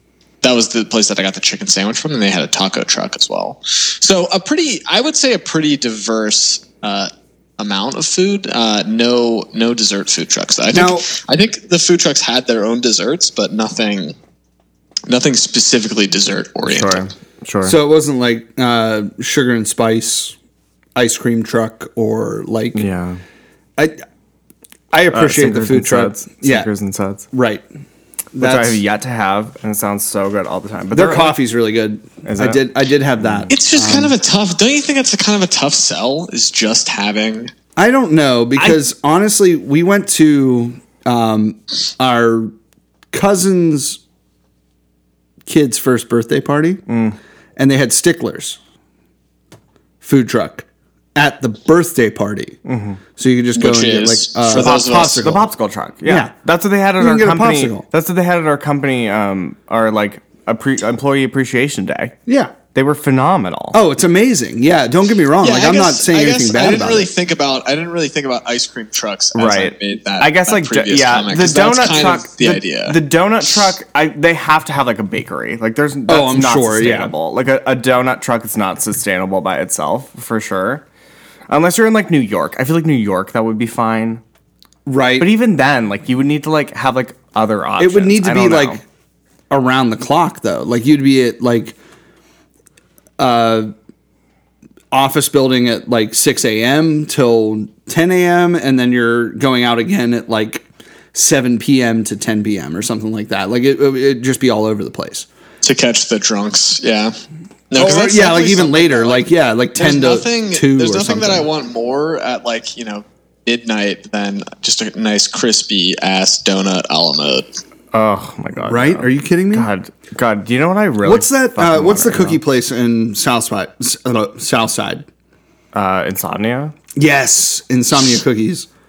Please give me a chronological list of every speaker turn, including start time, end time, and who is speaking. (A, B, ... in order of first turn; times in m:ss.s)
0:00.4-0:14.2 A
0:10.7-0:11.1 B
0:15.1-0:17.1 A
0:16.6-0:17.8 C
0:17.6-0:20.4 B
0:21.0-0:22.9 B
0:22.8-0:23.2 C
0:24.9-0:26.7 B
0:25.1-0:27.3 C
0:27.3-0:27.6 B
0:28.3-0:28.8 B
0:28.4-0:31.4 C
0:30.9-0:34.1 B
0:32.2-0:32.6 C
0:33.2-0:33.5 C
0:33.5-0:37.5 A
0:37.8-0:42.5 B
0:43.1-0:44.0 B
0:45.5-0:46.8 B
0:46.9-0:47.2 C
0:47.6-0:48.6 B
0:50.0-0:52.6 B
0:52.6-0:53.0 C
0:53.2-0:55.4 B
0:53.6-0:55.2 A
0:54.5-1:02.2 C
0:56.0-0:56.3 B
0:57.0-0:57.8 B
1:02.3-1:02.6 B
1:02.7-1:03.8 C
1:03.7-1:07.1 B
1:05.4-1:13.0 A
1:09.4-1:20.8 C
1:16.1-1:17.1 B
1:21.5-1:24.2 C
1:24.9-1:25.3 B
1:25.2-1:28.8 C
1:27.8-1:28.8 B
1:29.5-1:31.8 B
1:33.2-1:33.7 B
1:34.9-1:45.3 B
1:45.6-1:47.1 A
1:47.7-1:57.5 A
1:47.8-1:51.5 B
1:57.9-2:02.4 C
1:58.6-1:59.7 B
2:01.0-2:05.1 B
2:05.7-2:06.7 C
2:07.0-2:08.7 B